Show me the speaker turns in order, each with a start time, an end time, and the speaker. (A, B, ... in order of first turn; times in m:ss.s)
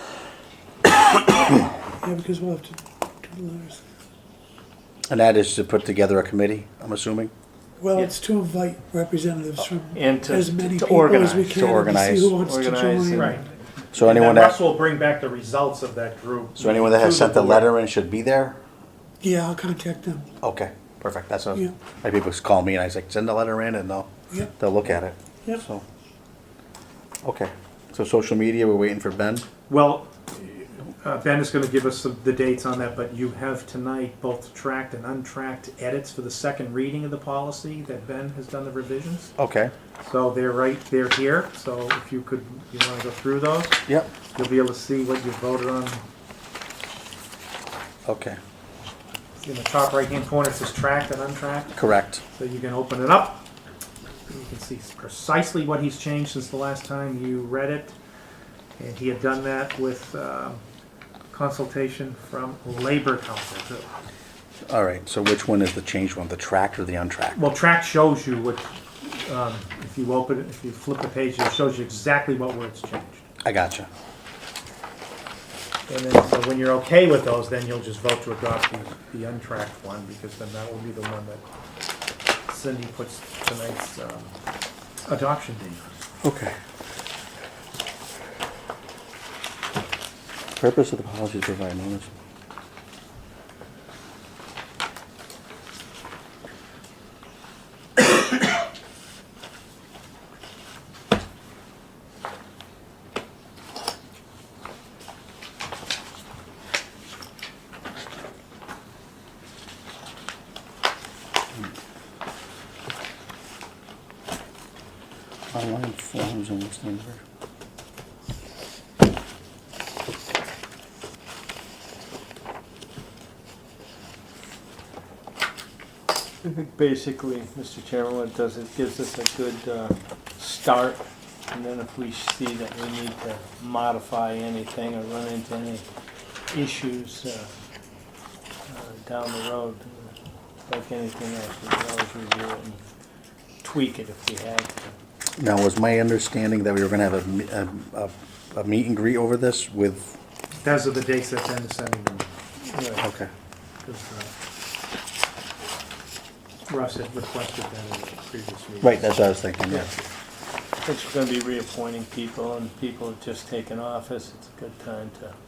0:02.0-0:03.8 A
0:05.1-0:07.3 B
0:07.8-0:13.4 A
0:09.9-0:11.6 C
0:11.5-0:12.3 B
0:12.4-0:13.4 C
0:13.9-0:14.6 B
0:14.0-0:17.4 D
0:16.6-0:18.6 B
0:19.2-0:20.3 A
0:20.4-0:25.8 B
0:27.2-0:29.5 B
0:29.7-0:39.3 D
0:39.4-0:39.7 B
0:40.0-0:43.8 D
0:44.3-0:46.0 D
0:48.1-0:48.4 B
0:49.4-0:51.8 D
0:51.8-0:52.2 B
0:52.3-0:53.5 D
0:54.3-0:58.0 D
0:58.8-1:00.6 D
1:01.3-1:03.9 D
1:04.7-1:07.4 B
1:07.3-1:13.3 D
1:13.4-1:13.9 B
1:15.9-1:21.4 D
1:22.5-1:24.4 D
1:25.1-1:26.1 D
1:26.2-1:26.5 B
1:30.6-1:32.1 B
1:55.5-1:57.2 B
2:06.4-2:15.8 C
2:16.5-2:17.5 C
2:18.7-2:20.1 C
2:20.7-2:22.8 C
2:23.6-2:24.9 C
2:25.4-2:30.2 B
2:30.6-2:32.3 D
2:32.7-2:33.1 C
2:33.0-2:33.3 B
2:33.8-2:34.3 D
2:36.7-2:39.1 D
2:38.8-2:39.9 B
2:40.8-2:45.3 C